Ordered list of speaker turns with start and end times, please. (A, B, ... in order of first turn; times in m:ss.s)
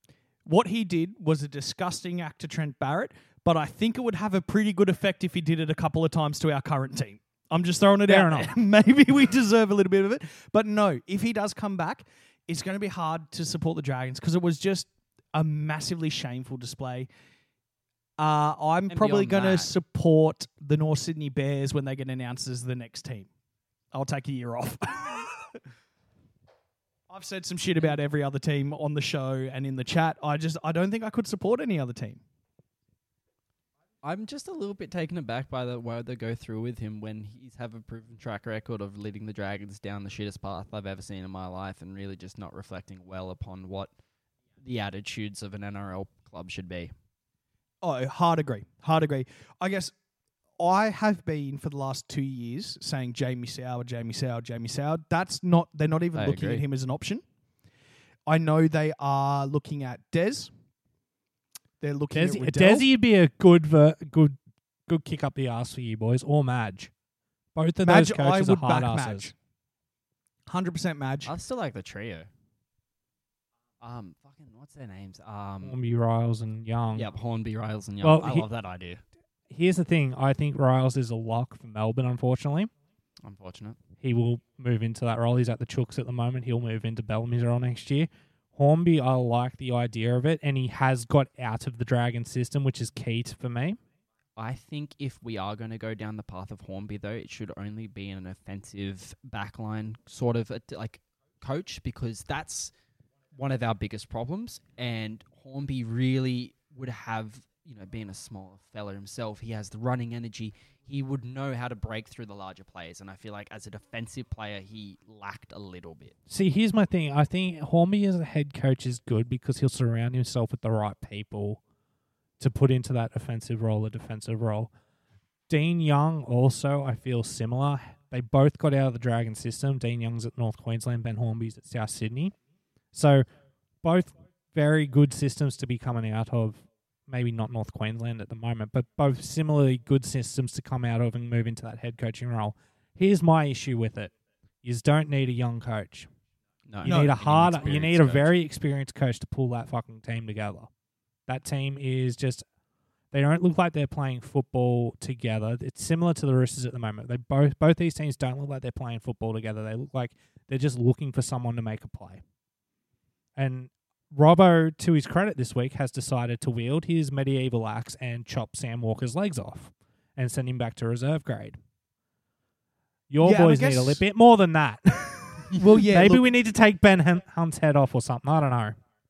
0:00.4-0:17.1 A
0:08.0-0:08.5 B
0:18.2-0:23.3 A
0:18.9-0:19.7 C
0:23.9-0:25.6 A
0:27.1-0:32.2 A
0:34.0-0:43.9 C
0:44.6-0:46.9 C
0:47.8-0:49.9 A
0:50.6-0:57.2 A
0:56.1-0:56.6 C
0:58.3-1:00.5 A
1:01.8-1:02.8 A
1:02.1-1:06.9 B
1:07.5-1:09.3 B
1:07.8-1:09.3 A
1:10.5-1:11.3 A
1:11.2-1:12.3 C
1:13.8-1:15.8 C
1:15.6-1:17.1 B
1:16.9-1:19.0 C
1:18.0-1:18.5 B
1:19.5-1:22.7 B
1:23.2-1:23.8 C
1:24.0-1:33.8 B
1:34.4-1:42.7 C
1:43.3-1:56.1 C
1:56.3-2:01.6 B
2:02.4-2:04.7 B
2:05.5-2:12.3 B
2:12.9-2:13.2 B
2:13.8-2:24.1 B
2:24.6-2:26.1 B
2:26.7-2:28.3 C
2:26.8-2:30.7 B
2:26.8-2:27.2 A
2:31.3-2:32.4 B
2:33.1-2:42.2 B
2:43.4-2:51.6 B
2:53.1-2:58.8 B
2:53.2-2:54.0 A
2:55.5-2:56.3 A